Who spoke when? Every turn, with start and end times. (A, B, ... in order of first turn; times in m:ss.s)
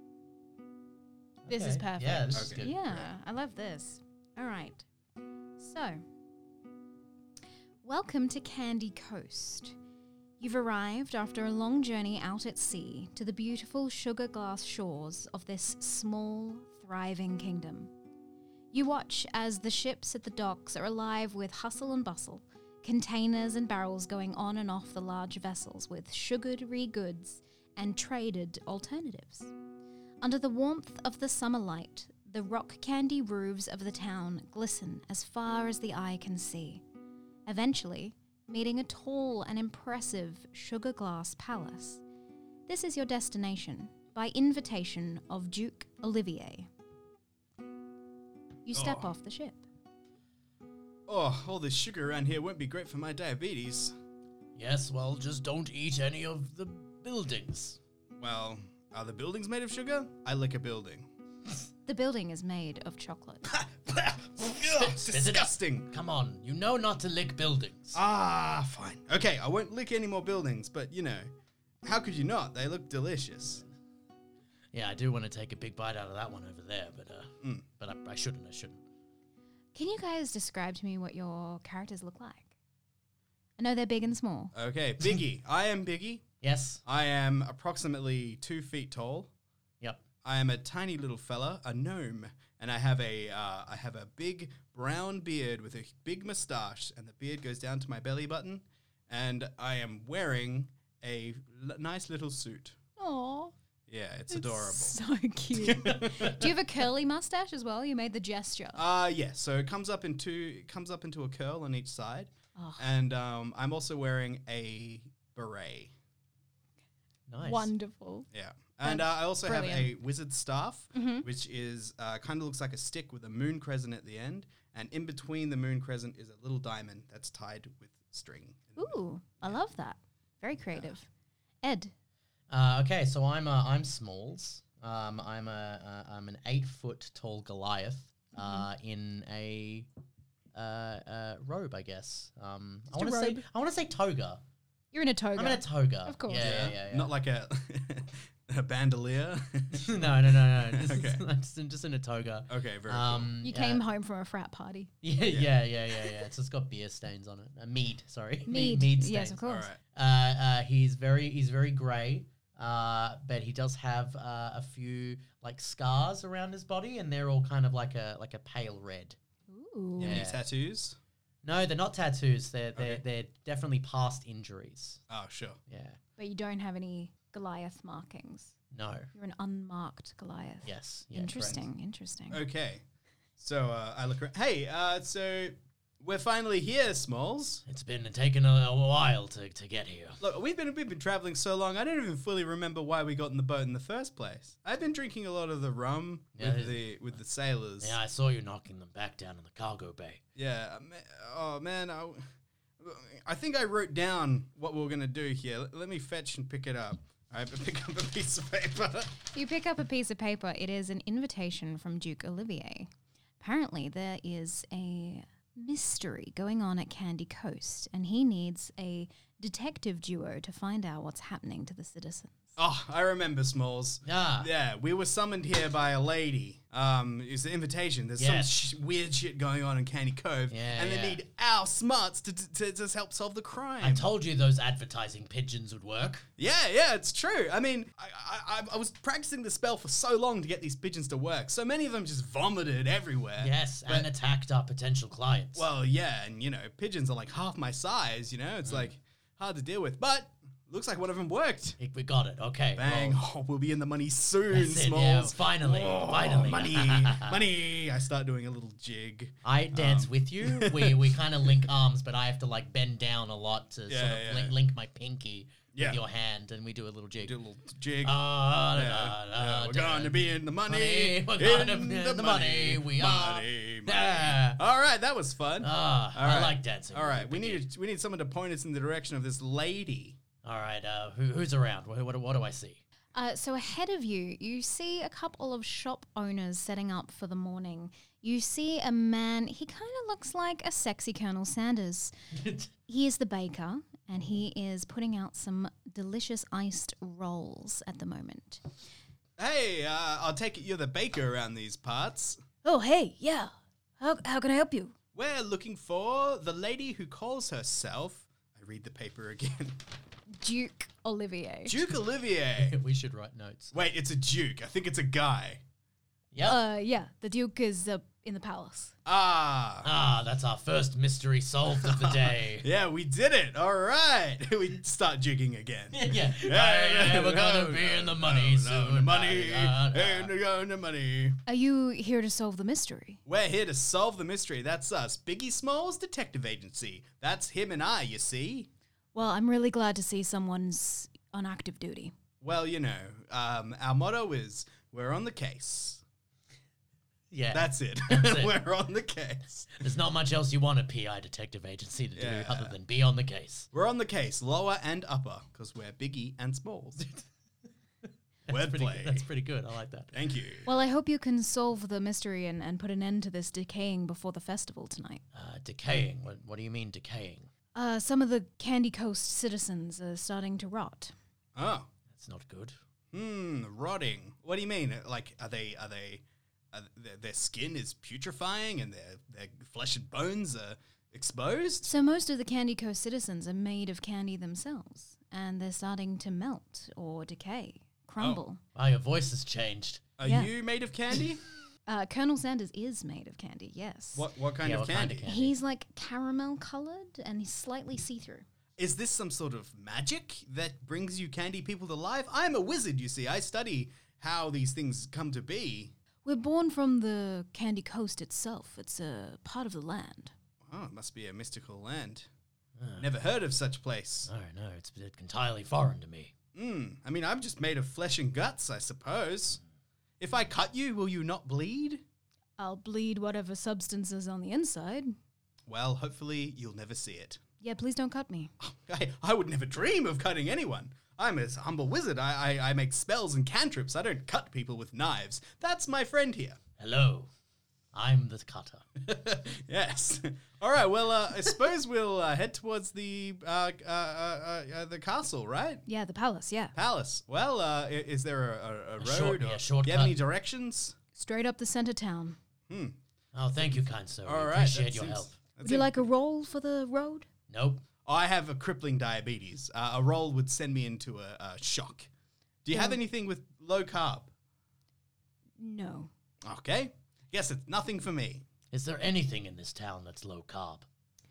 0:01.4-0:03.1 A
0:01.5-0:04.8 B
0:02.3-0:02.7 C
0:05.6-0:06.0 B
0:07.8-0:09.7 B
0:10.4-0:17.9 B
0:18.7-0:29.5 B
0:30.2-0:36.8 B
0:37.4-0:42.0 B
0:42.7-0:46.7 B
0:48.6-0:49.6 B
0:48.7-0:49.1 C
0:51.1-0:53.9 C
0:54.6-0:57.8 A
0:58.1-1:01.1 C
1:01.8-1:03.5 B
1:03.6-1:05.9 C
1:04.4-1:08.0 A
1:07.9-1:11.3 C
1:11.8-1:13.6 C
1:14.7-1:18.8 A
1:19.7-1:22.5 B
1:23.6-1:24.5 B
1:24.5-1:26.3 C
1:26.4-1:26.8 A
1:26.8-1:29.3 C
1:30.2-1:42.8 C
1:43.0-1:43.5 B
1:43.9-1:45.0 C
1:44.3-1:48.8 B
1:45.5-1:46.5 C
1:48.8-1:55.9 C
1:52.6-1:52.8 B
1:57.3-1:57.7 A
1:57.4-1:58.3 B
1:58.3-2:09.6 C
1:58.8-1:59.9 B
2:00.9-2:01.3 B
2:08.8-2:11.1 B
2:11.6-2:11.9 B
2:12.5-2:19.9 A
2:18.3-2:18.7 B
2:20.5-2:24.4 A
2:22.9-2:23.4 B
2:24.9-2:26.7 B
2:25.3-2:27.1 A
2:26.4-2:31.2 C
2:29.7-2:33.8 A
2:32.5-2:33.3 C
2:33.4-2:34.9 B
2:35.0-2:39.4 A
2:35.2-2:35.5 C
2:38.5-2:39.7 B
2:39.4-2:39.8 C
2:39.9-2:49.2 A
2:49.5-2:50.2 B
2:50.0-2:51.0 C
2:50.0-2:50.4 A
2:51.4-2:55.0 A
2:52.8-2:53.0 C
2:55.1-2:55.6 C
2:55.7-2:56.0 A
2:56.2-2:58.5 B
2:58.7-2:59.1 A
2:59.1-3:02.4 B
3:00.6-3:01.6 A
3:02.3-3:02.8 C
3:03.4-3:07.6 C
3:07.6-3:10.2 A
3:10.2-3:17.9 C
3:16.4-3:16.9 A
3:17.8-3:20.2 A
3:20.4-3:22.2 C
3:22.8-3:29.2 C
3:29.3-3:42.5 B
3:42.6-3:54.1 C
3:44.0-3:44.5 A
3:48.2-3:48.6 A
3:50.5-3:51.2 A
3:53.8-3:56.3 A
3:56.4-4:04.1 C
4:03.4-4:05.7 A
4:05.5-4:11.8 C
4:11.8-4:13.2 A
4:12.8-4:21.1 C
4:14.5-4:17.4 A
4:19.4-4:27.4 A
4:23.9-4:24.5 C
4:25.7-4:26.0 C
4:27.2-4:40.2 C
4:28.0-4:34.6 A
4:35.6-4:37.6 A
4:40.4-4:42.8 A
4:43.1-4:52.1 B
4:52.4-4:52.7 A
4:52.9-4:58.6 B
4:59.4-5:02.4 C
5:02.6-5:04.9 B
5:05.1-5:09.8 C
5:10.4-5:11.8 B
5:11.6-5:12.8 C
5:12.6-5:13.7 A
5:13.7-5:15.6 C
5:16.3-5:16.6 A
5:16.4-5:18.9 B
5:19.0-5:19.9 C
5:19.8-5:22.6 A
5:21.8-5:31.4 C
5:25.9-5:30.3 A
5:31.5-5:33.2 B
5:33.2-5:38.7 C
5:39.1-5:42.1 B
5:42.4-5:46.0 C
5:47.3-5:48.6 A
5:47.5-5:49.7 C
5:49.7-5:53.7 A
5:52.2-5:52.7 C
5:53.7-5:57.0 C
5:57.0-5:57.2 A
5:58.4-6:00.1 A
5:58.5-5:59.2 C
6:00.1-6:00.7 C
6:00.6-6:05.2 B
6:05.3-6:07.5 A
6:07.7-6:11.1 B
6:11.6-6:11.9 C
6:12.1-6:12.8 A
6:13.1-6:21.9 C
6:21.8-6:28.6 B
6:28.7-6:30.0 A
6:30.2-6:31.4 C
6:30.2-6:30.5 B
6:31.9-6:34.3 B
6:34.1-6:35.3 C
6:34.6-6:35.5 A
6:35.3-6:38.4 B
6:38.8-6:45.9 C
6:46.2-6:50.3 B
6:50.6-6:52.3 C
6:52.8-6:53.1 A
6:53.0-6:54.3 C
6:54.3-6:56.3 A
6:56.5-6:59.6 C
7:00.2-7:02.0 C
7:02.6-7:05.1 B
7:05.7-7:07.4 C
7:07.6-7:08.5 B
7:08.6-7:16.6 C
7:16.8-7:17.3 A
7:17.9-7:18.9 A
7:19.0-7:25.8 C
7:25.9-7:26.7 B
7:26.8-7:31.0 C
7:29.0-7:30.2 A
7:31.2-7:32.4 B
7:32.7-7:33.0 C
7:33.3-7:35.4 A
7:33.6-7:36.0 C
7:35.6-7:37.3 B
7:37.5-7:37.8 A
7:38.0-7:42.1 C
7:42.6-7:44.3 C
7:42.7-7:43.0 B
7:45.6-7:46.1 B
7:46.4-7:48.4 C
7:48.7-7:50.9 A